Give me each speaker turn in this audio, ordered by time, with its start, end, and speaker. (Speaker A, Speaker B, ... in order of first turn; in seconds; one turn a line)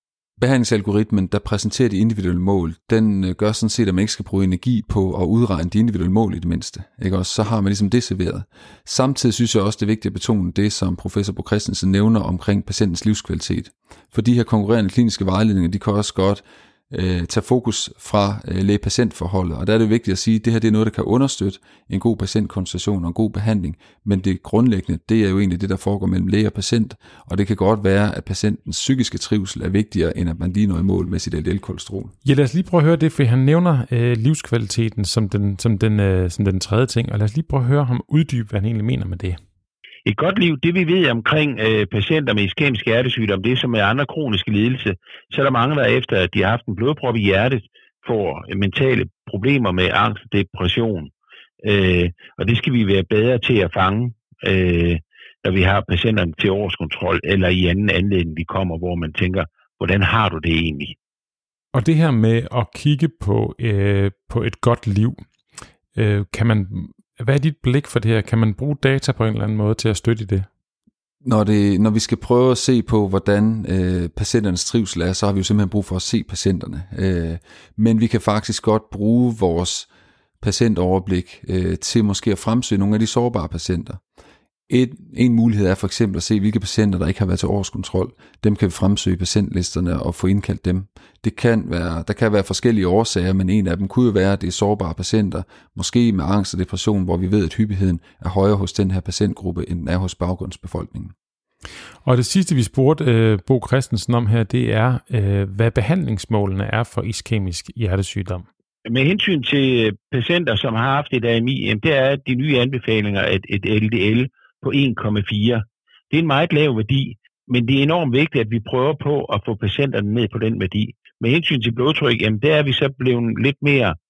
Speaker A: 0.4-32.1
Speaker B: 32.2-39.4
Speaker C: 40.0-61.0
Speaker B: 61.7-65.2
Speaker B: 65.9-70.5
Speaker A: 71.2-79.9
Speaker A: 80.4-84.0
Speaker A: 84.7-101.1
Speaker B: 102.0-108.5
Speaker C: 108.8-124.0